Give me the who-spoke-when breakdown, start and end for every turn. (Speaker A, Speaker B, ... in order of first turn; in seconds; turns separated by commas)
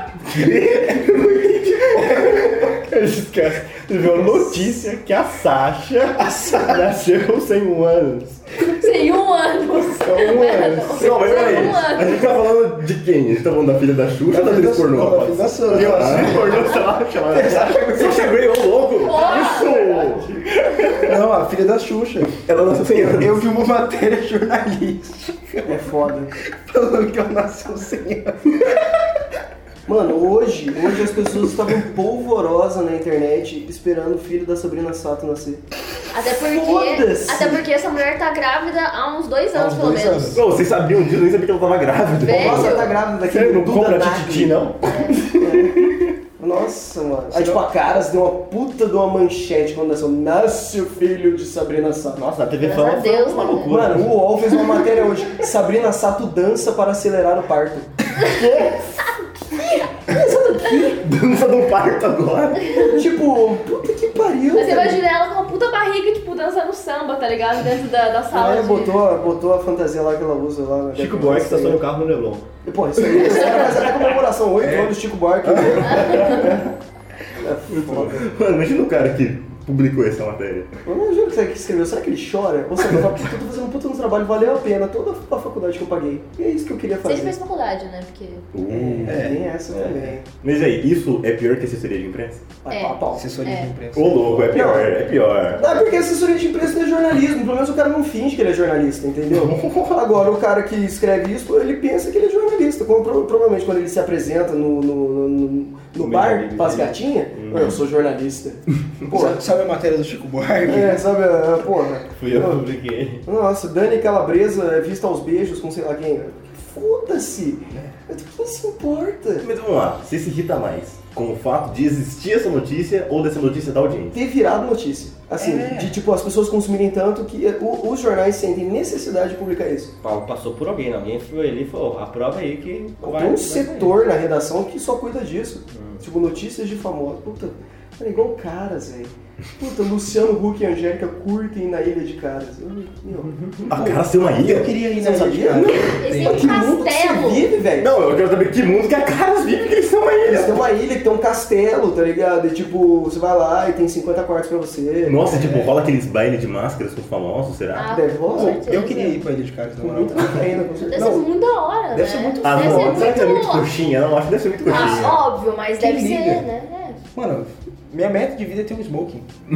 Speaker A: 0.3-8.4, Speaker B: 4.2-4.4, Speaker C: 8.6-12.2, Speaker A: 10.1-11.5, Speaker D: 10.9-21.1, Speaker E: 14.3-18.3, Speaker C: 19.0-19.7, Speaker A: 19.6-20.2, Speaker E: 21.0-22.3, Speaker D: 22.4-23.4, Speaker E: 22.9-25.9, Speaker B: 25.6-26.3, Speaker E: 26.5-29.0, Speaker B: 29.9-35.6, Speaker C: 36.1-40.4, Speaker B: 36.3-37.6, Speaker E: 39.5-40.5, Speaker D: 40.3-44.6, Speaker C: 42.2-42.9, Speaker B: 42.3-44.6, Speaker A: 43.3-44.7, Speaker C: 44.9-45.2, Speaker B: 45.4-45.8, Speaker B: 46.4-52.2, Speaker E: 47.3-47.6, Speaker A: 52.1-54.2, Speaker C: 52.6-53.7, Speaker B: 53.7-57.9, Speaker D: 58.3-58.8, Speaker B: 60.1-61.0, Speaker D: 60.9-62.7, Speaker B: 62.7-65.0, Speaker C: 64.5-69.0, Speaker B: 68.3-71.8, Speaker A: 70.9-72.4, Speaker B: 72.6-76.7, Speaker E: 75.4-76.2, Speaker B: 77.4-78.3, Speaker D: 77.7-80.7, Speaker B: 80.8-87.3, Speaker C: 87.0-88.5, Speaker D: 88.5-89.3, Speaker B: 88.7-90.3, Speaker E: 89.0-89.4, Speaker D: 90.4-92.4, Speaker B: 92.6-93.3, Speaker C: 92.7-93.7, Speaker E: 93.1-94.6, Speaker D: 93.9-95.6, Speaker B: 94.5-94.9, Speaker B: 95.5-109.4, Speaker E: 99.3-99.7, Speaker A: 106.0-107.8, Speaker E: 109.1-111.0, Speaker B: 110.7-112.6, Speaker A: 112.2-113.2, Speaker B: 113.2-119.5, Speaker D: 119.4-124.2, Speaker B: 124.1-129.9, Speaker E: 125.4-126.0, Speaker A: 130.0-133.9, Speaker B: 133.0-144.0, Speaker A: 135.7-136.0, Speaker A: 143.3-143.6, Speaker D: 143.7-144.7, Speaker E: 143.8-146.6, Speaker B: 144.8-148.0, Speaker C: 145.6-147.4, Speaker D: 147.8-150.6, Speaker B: 150.2-155.7, Speaker D: 155.0-157.9, Speaker C: 157.7-159.2, Speaker B: 157.8-158.6, Speaker E: 158.3-161.1, Speaker B: 159.8-161.2, Speaker C: 160.9-163.7, Speaker E: 161.9-163.1, Speaker D: 162.4-165.2, Speaker C: 164.6-167.0, Speaker E: 165.7-166.4, Speaker E: 167.1-169.3